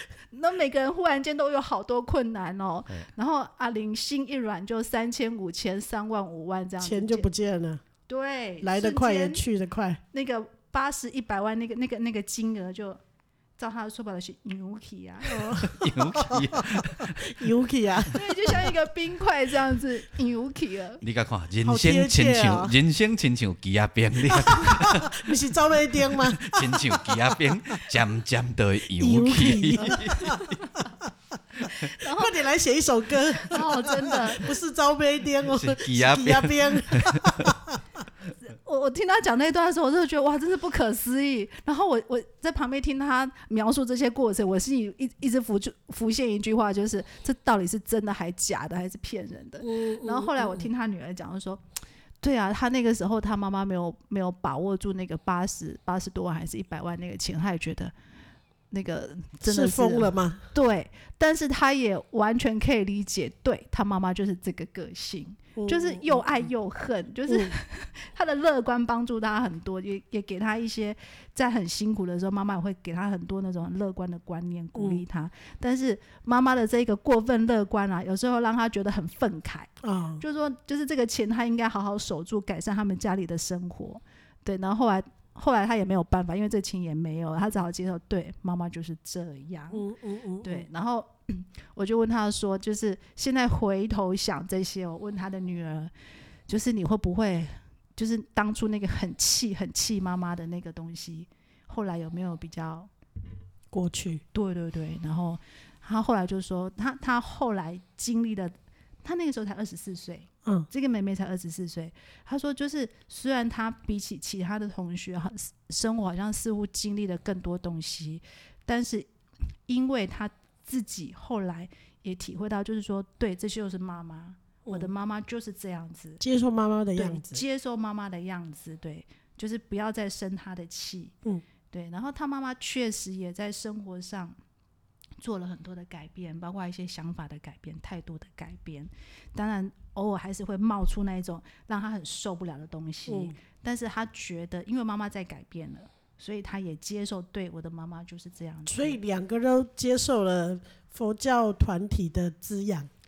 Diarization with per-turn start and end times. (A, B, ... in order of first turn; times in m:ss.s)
0:00.3-0:07.3 A
0:06.8-0:07.8 B
0:08.1-0:09.4 A
0:08.6-0:10.0 B
0:10.1-0:13.0 A
0:13.6-0:15.6 A
0:15.3-0:18.6 B
0:15.6-0:17.4 C
0:18.1-0:21.0 A
0:21.0-0:25.2 C
0:21.6-0:22.7 B
0:24.3-0:27.6 B
0:26.3-0:30.6 C
0:29.0-0:30.9 B
0:31.7-0:32.4 A
0:32.0-0:37.8 B
0:33.3-0:34.5 A
0:35.4-0:37.5 C
0:38.4-0:51.6 A
0:49.6-0:50.7 B
0:52.2-0:57.9 A
0:58.7-1:29.8 A
0:59.4-1:00.4 B
1:05.6-1:06.5 B
1:07.3-1:07.5 B
1:14.8-1:15.0 B
1:19.8-1:20.2 B
1:29.7-1:30.6 B
1:30.4-1:35.9 A
1:36.5-1:42.9 A
1:43.7-1:44.2 B
1:44.3-1:59.1 A
1:59.7-2:06.2 A
2:06.2-2:07.4 B
2:07.0-2:11.1 A
2:11.7-2:14.4 A
2:15.2-2:29.0 A
2:23.1-2:23.4 B
2:28.6-2:32.9 B